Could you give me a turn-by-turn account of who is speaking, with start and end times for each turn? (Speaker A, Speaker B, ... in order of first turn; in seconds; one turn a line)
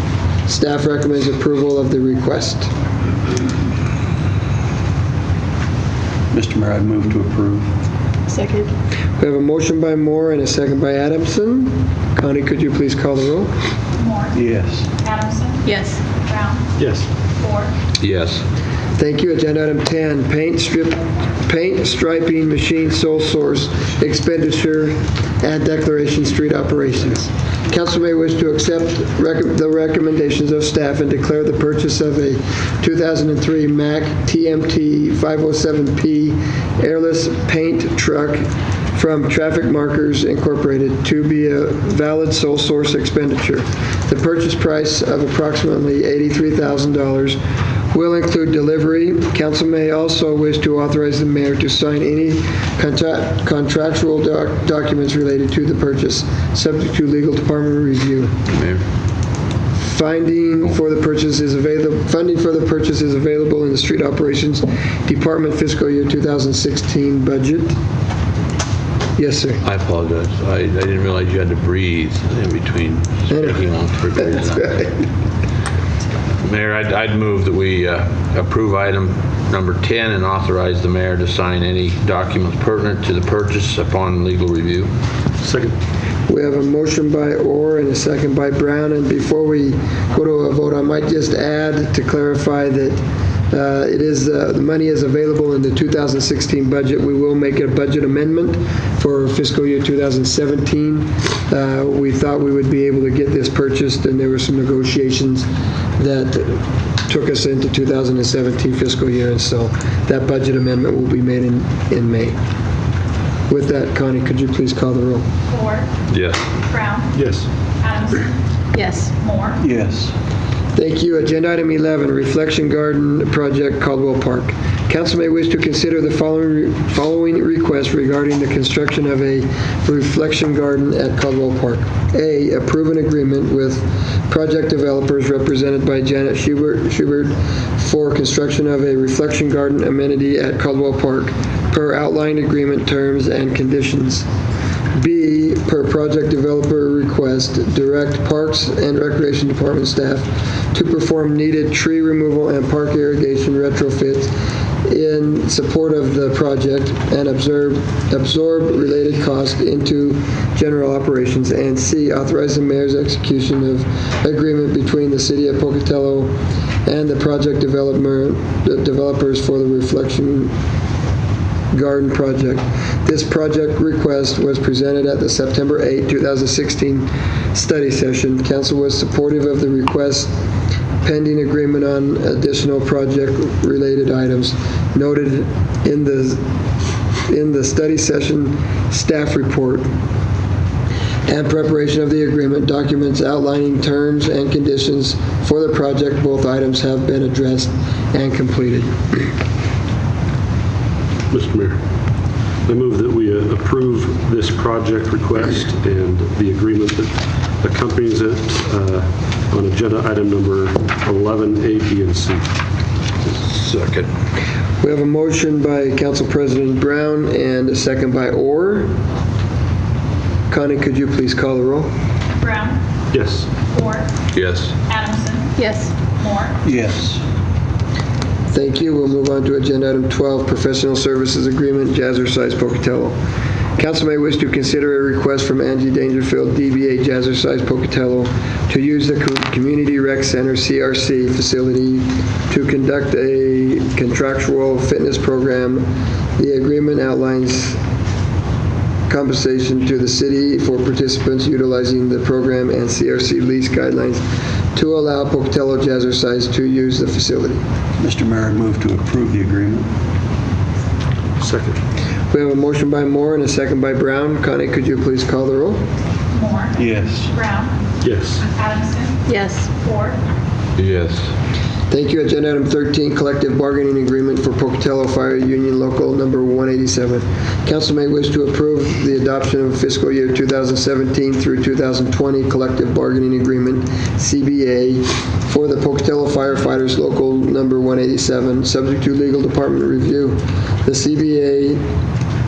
Speaker A: 0.5-2.7
Speaker B: 6.3-7.7
Speaker C: 8.3-8.7
Speaker A: 9.2-13.5
Speaker D: 14.0-14.4
Speaker B: 14.3-14.9
Speaker D: 15.0-16.7
Speaker C: 15.7-16.0
Speaker E: 16.8-17.1
Speaker D: 17.4-17.7
Speaker F: 18.0-18.4
Speaker A: 19.0-38.4
Speaker A: 38.9-47.4
Speaker A: 47.9-58.3
Speaker F: 58.5-58.8
Speaker A: 59.8-67.8
Speaker A: 69.2-69.6
Speaker F: 69.6-74.9
Speaker A: 73.3-73.6
Speaker A: 74.2-74.9
Speaker F: 76.4-84.9
Speaker E: 85.4-85.8
Speaker A: 86.3-93.0
Speaker A: 93.5-105.5
Speaker A: 106.0-112.4
Speaker A: 113.5-115.2
Speaker D: 115.5-115.9
Speaker F: 116.1-116.5
Speaker D: 116.7-117.2
Speaker E: 117.2-117.5
Speaker D: 117.8-118.4
Speaker C: 118.7-119.1
Speaker D: 119.1-119.6
Speaker B: 119.6-120.1
Speaker A: 120.8-144.3
Speaker A: 145.0-154.3
Speaker A: 154.8-166.3
Speaker A: 166.8-170.5
Speaker A: 171.7-180.3
Speaker A: 181.0-186.4
Speaker A: 187.3-189.9
Speaker A: 191.3-199.2
Speaker E: 201.3-201.8
Speaker E: 202.7-212.5
Speaker F: 213.2-214.1
Speaker A: 214.8-218.9
Speaker A: 220.5-221.9
Speaker D: 222.4-222.8
Speaker E: 223.1-223.5
Speaker D: 223.7-224.1
Speaker F: 224.3-224.7
Speaker D: 224.9-225.6
Speaker C: 225.6-225.9
Speaker D: 226.1-226.6
Speaker B: 226.6-227.2
Speaker A: 228.5-233.2
Speaker A: 233.8-247.8
Speaker A: 249.1-254.2
Speaker A: 254.7-257.6
Speaker B: 258.0-259.9
Speaker E: 261.4-261.8
Speaker A: 262.3-265.8
Speaker D: 266.3-267.8
Speaker B: 266.8-267.3
Speaker E: 268.0-268.4
Speaker D: 268.5-269.2
Speaker C: 269.3-269.7
Speaker D: 269.8-270.2
Speaker F: 270.8-271.3
Speaker A: 271.9-291.8